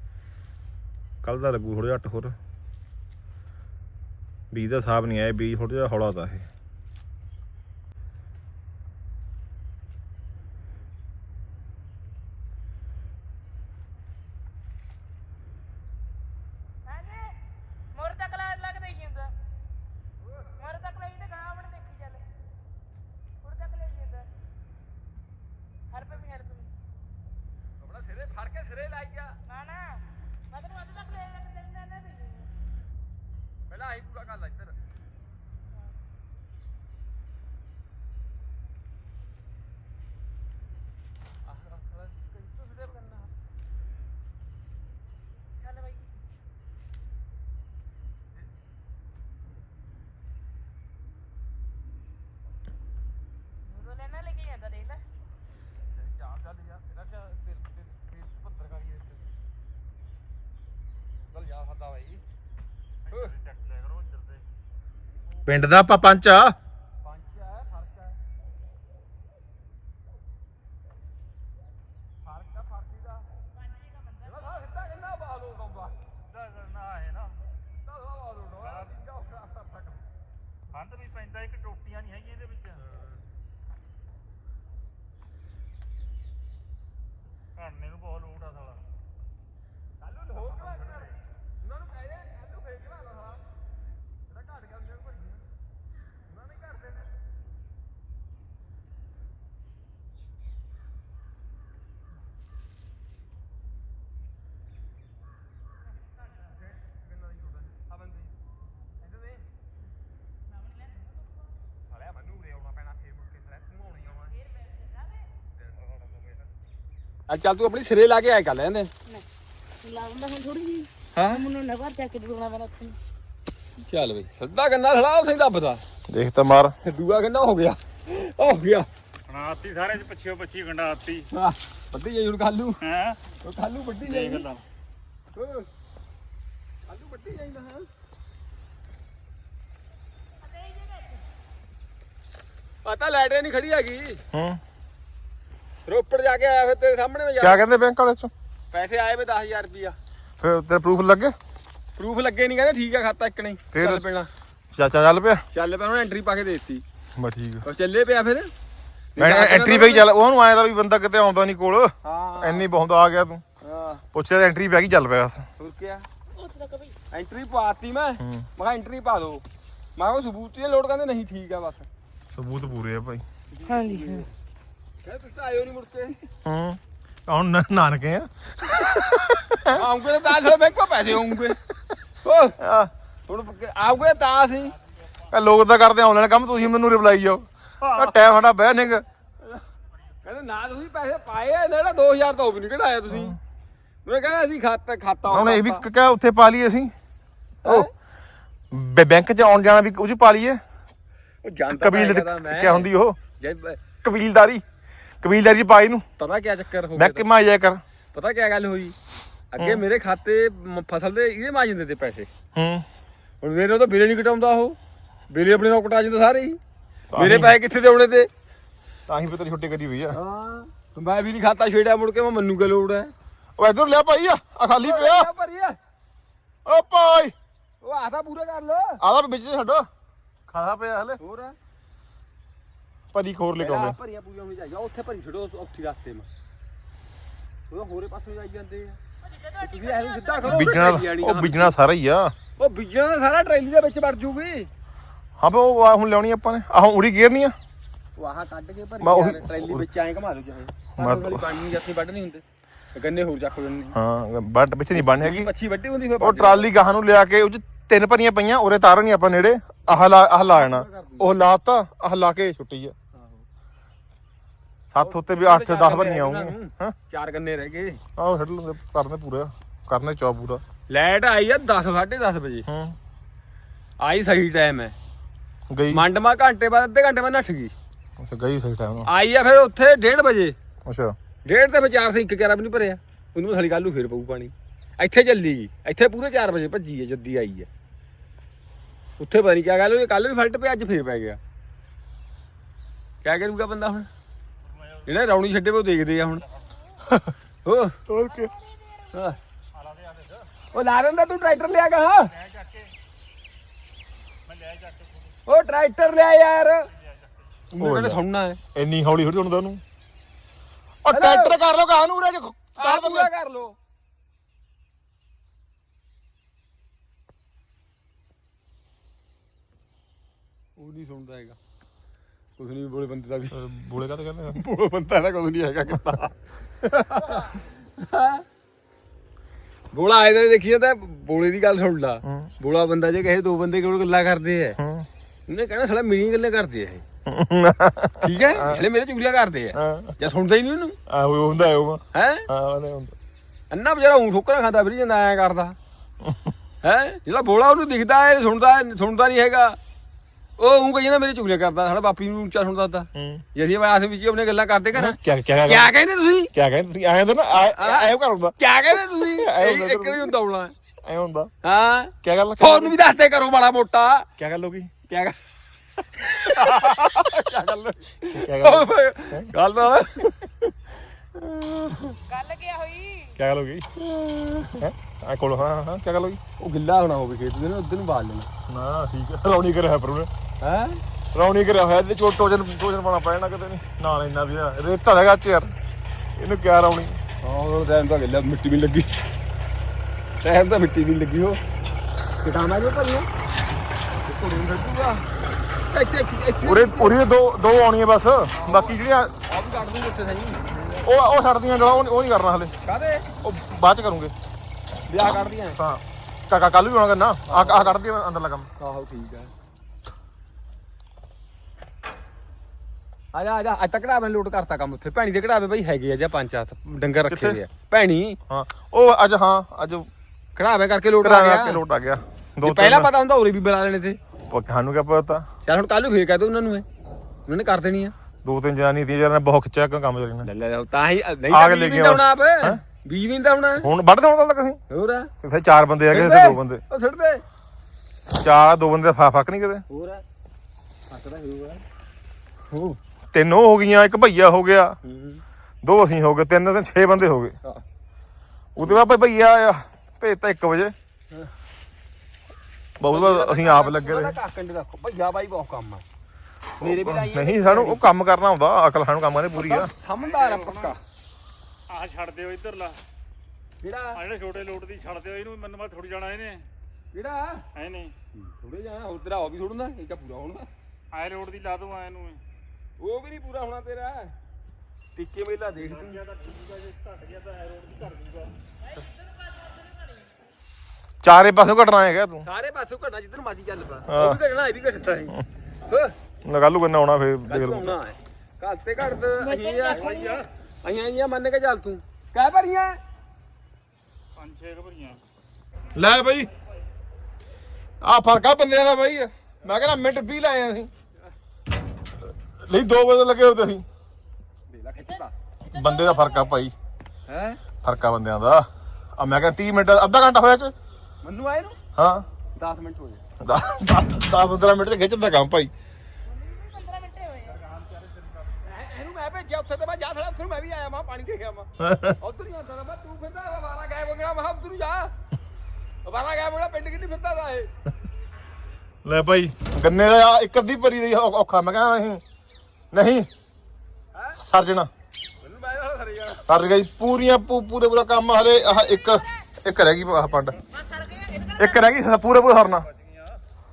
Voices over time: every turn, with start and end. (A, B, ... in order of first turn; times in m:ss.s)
0:01.2-0:02.4 A
0:04.5-0:06.5 A
0:16.8-0:17.4 B
0:17.9-0:19.3 B
0:20.2-0:20.5 C
0:20.6-0:22.2 B
0:23.4-0:24.3 B
0:25.9-0:26.7 B
0:27.8-0:29.4 C
0:29.4-0:32.5 B
0:33.7-0:34.8 C
0:41.4-0:43.3 C
0:45.6-0:46.1 B
0:53.6-0:55.0 B
0:55.9-0:59.3 C
1:01.3-1:02.2 C
1:03.0-1:04.5 D
1:05.4-1:06.5 A
1:07.0-1:08.2 C
1:12.2-1:13.3 C
1:14.2-1:16.0 C
1:16.3-1:17.4 D
1:17.8-1:20.0 C
1:18.6-1:18.9 D
1:20.7-1:22.8 D
1:27.6-1:28.8 D
1:30.0-1:33.4 C
1:34.3-1:35.4 C
1:36.2-1:37.1 C
1:46.5-1:48.3 C
1:49.0-1:49.4 C
1:51.9-1:54.4 C
1:54.5-1:55.1 B
1:57.3-1:58.9 C
1:59.8-2:03.0 B
2:03.8-2:05.8 C
2:06.1-2:06.7 A
2:06.8-2:08.9 C
2:09.3-2:11.2 D
2:11.3-2:12.8 C
2:12.8-2:13.2 D
2:13.4-2:14.4 C
2:14.0-2:14.6 D
2:15.3-2:15.7 C
2:16.9-2:17.9 C
2:20.4-2:21.2 B
2:22.8-2:24.2 C
2:24.3-2:24.6 A
2:25.9-2:27.6 C
2:27.4-2:28.3 A
2:28.7-2:30.0 C
2:30.4-2:31.3 A
2:32.0-2:34.3 C
2:33.7-2:34.0 A
2:34.7-2:35.4 A
2:35.5-2:36.8 C
2:37.2-2:37.6 A
2:37.6-2:38.5 C
2:39.2-2:40.1 C
2:39.2-2:43.4 A
2:42.0-2:42.7 C
2:43.6-2:44.0 C
2:44.1-2:45.4 A
2:45.6-2:46.0 C
2:46.4-2:46.9 B
2:47.1-2:49.4 C
2:48.2-2:48.4 A
2:50.0-2:51.9 C
2:52.3-2:53.2 A
2:53.5-2:54.2 D
2:53.7-2:54.2 B
2:55.0-2:56.2 C
2:56.4-3:00.5 A
2:59.7-3:01.6 C
3:02.2-3:02.6 C
3:02.6-3:02.9 A
3:03.3-3:04.7 C
3:05.3-3:09.0 A
3:07.8-3:08.1 D
3:10.2-3:13.4 C
3:13.1-3:13.4 A
3:14.0-3:15.8 C
3:15.3-3:16.9 A
3:17.6-3:17.9 C
3:18.7-3:20.6 A
3:21.4-3:23.8 C
3:21.7-3:23.2 A
3:24.0-3:24.6 A
3:25.2-3:26.0 A
3:26.2-3:27.3 C
3:26.9-3:27.8 A
3:28.1-3:28.9 C
3:29.5-3:32.3 C
3:32.5-3:32.8 A
3:33.4-3:34.8 C
3:35.3-3:36.6 C
3:37.1-3:37.5 A
3:37.2-3:38.3 C
3:39.1-3:40.2 A
3:40.1-3:43.1 C
3:43.6-3:45.3 A
3:44.8-3:45.8 C
3:46.6-3:47.3 A
3:47.8-3:49.0 C
3:49.0-3:49.9 A
3:50.5-3:51.2 A
3:51.2-3:51.5 C
3:53.1-3:54.0 A
3:53.6-3:56.3 C
3:57.7-3:59.0 C
3:59.2-4:00.8 B
3:59.6-4:01.7 C
4:00.4-4:02.3 A
4:02.6-4:04.7 C
4:05.4-4:07.6 A
4:08.2-4:12.4 C
4:09.0-4:09.9 A
4:11.0-4:11.4 A
4:12.9-4:14.0 C
4:13.9-4:15.5 A
4:14.9-4:16.7 C
4:16.2-4:22.9 A
4:20.2-4:21.4 C
4:23.1-4:23.4 C
4:24.9-4:26.9 A
4:25.0-4:28.0 C
4:28.2-4:30.6 A
4:30.9-4:32.7 C
4:32.7-4:33.0 A
4:34.0-4:34.9 C
4:35.7-4:36.0 A
4:35.9-4:37.7 C
4:38.2-4:39.1 A
4:39.0-4:40.5 C
4:40.8-4:41.1 A
4:41.4-4:47.7 C
4:49.2-4:51.4 C
4:53.2-4:54.1 C
4:54.6-4:55.1 D
4:55.0-4:56.4 C
4:57.6-4:58.0 C
4:58.1-4:58.5 A
4:58.3-4:59.1 B
4:59.1-4:59.4 C
4:59.7-5:00.5 D
5:00.7-5:02.3 C
5:02.3-5:02.9 D
5:04.4-5:05.4 D
5:05.5-5:06.9 C
5:06.9-5:07.6 D
5:07.7-5:08.6 C
5:07.8-5:08.2 A
5:08.7-5:09.8 A
5:11.0-5:13.3 A
5:11.1-5:11.6 C
5:12.8-5:13.7 C
5:20.8-5:21.6 C
5:22.6-5:23.6 C
5:23.5-5:24.6 A
5:24.5-5:28.4 C
5:29.9-5:34.8 C
5:32.2-5:32.5 A
5:34.8-5:35.1 A
5:35.5-5:37.0 C
5:37.3-5:38.8 A
5:38.2-5:41.0 C
5:39.7-5:40.1 A
5:41.1-5:43.1 A
5:42.1-5:42.5 C
5:43.7-5:45.8 C
5:46.2-5:46.5 A
5:46.8-5:49.8 C
5:50.6-5:56.5 C
5:53.1-5:53.4 A
5:54.9-5:55.9 A
5:56.5-6:00.3 A
5:57.6-6:00.7 C
6:01.0-6:01.5 A
6:01.6-6:04.3 C
6:02.2-6:03.0 A
6:04.4-6:04.9 A
6:05.1-6:05.4 C
6:06.2-6:10.4 C
6:08.3-6:09.5 A
6:11.3-6:12.2 C
6:12.3-6:13.3 B
6:13.4-6:13.8 A
6:14.0-6:14.8 C
6:14.8-6:16.4 A
6:16.6-6:18.5 C
6:18.7-6:20.3 A
6:20.6-6:21.0 C
6:21.3-6:25.7 A
6:26.4-6:27.2 A
6:27.4-6:29.3 C
6:30.4-6:31.6 C
6:32.4-6:33.3 C
6:34.2-6:35.2 C
6:35.9-6:37.2 C
6:36.6-6:39.3 A
6:38.6-6:41.0 C
6:41.0-6:42.7 A
6:42.8-6:43.3 C
6:43.4-6:44.3 A
6:45.1-6:45.8 C
6:45.2-6:48.7 A
6:47.5-6:48.0 C
6:48.8-6:49.5 C
6:53.3-6:58.4 C
6:57.3-6:57.6 A
6:58.5-7:00.1 A
7:00.6-7:01.8 C
7:01.2-7:03.1 A
7:02.6-7:04.2 C
7:04.5-7:05.4 A
7:05.6-7:06.8 C
7:07.5-7:08.1 C
7:08.4-7:10.5 A
7:10.4-7:13.9 C
7:11.5-7:12.8 A
7:13.8-7:14.8 A
7:14.9-7:15.3 C
7:15.4-7:16.8 A
7:16.1-7:17.4 C
7:18.4-7:19.8 A
7:19.9-7:20.2 C
7:21.1-7:21.8 C
7:22.7-7:23.0 C
7:23.3-7:25.0 A
7:25.0-7:25.4 C
7:25.8-7:27.6 A
7:28.8-7:30.9 A
7:33.0-7:34.4 A
7:33.0-7:36.0 C
7:36.8-7:38.1 C
7:36.8-7:39.9 A
7:39.5-7:41.0 C
7:40.2-7:40.9 D
7:41.9-7:43.0 D
7:43.8-7:44.2 C
7:44.1-7:46.6 D
7:47.1-7:47.6 C
7:47.7-7:48.1 D
7:48.3-7:50.7 C
7:51.1-7:52.4 D
7:53.0-7:54.3 C
7:55.2-7:56.2 C
7:55.8-7:58.5 D
7:59.0-7:59.9 B
8:01.2-8:02.4 A
8:02.4-8:06.1 C
8:04.1-8:04.4 A
8:06.4-8:08.0 A
8:07.5-8:10.2 C
8:09.4-8:10.4 B
8:09.8-8:10.4 D
8:10.8-8:13.0 C
8:14.4-8:15.2 D
8:15.9-8:16.5 A
8:18.0-8:20.9 A
8:22.6-8:23.8 A
8:24.7-8:25.3 C
8:25.7-8:26.7 A
8:25.7-8:26.5 B
8:27.3-8:27.6 C
8:27.8-8:28.6 A
8:29.2-8:30.7 A
8:31.2-8:31.8 C
8:32.0-8:32.2 A
8:32.6-8:33.2 C
8:33.4-8:35.7 A
8:36.3-8:37.6 B
8:37.5-8:38.6 D
8:38.6-8:45.1 C
8:41.8-8:42.2 A
8:46.0-8:47.7 C
8:49.0-8:52.2 A
8:52.9-8:53.3 A
8:54.1-8:54.4 C
8:54.3-8:54.9 A
8:55.4-8:56.5 C
8:56.5-9:00.6 A
8:59.0-8:59.2 B
9:00.7-9:01.8 B
9:01.6-9:02.9 A
9:02.8-9:03.4 D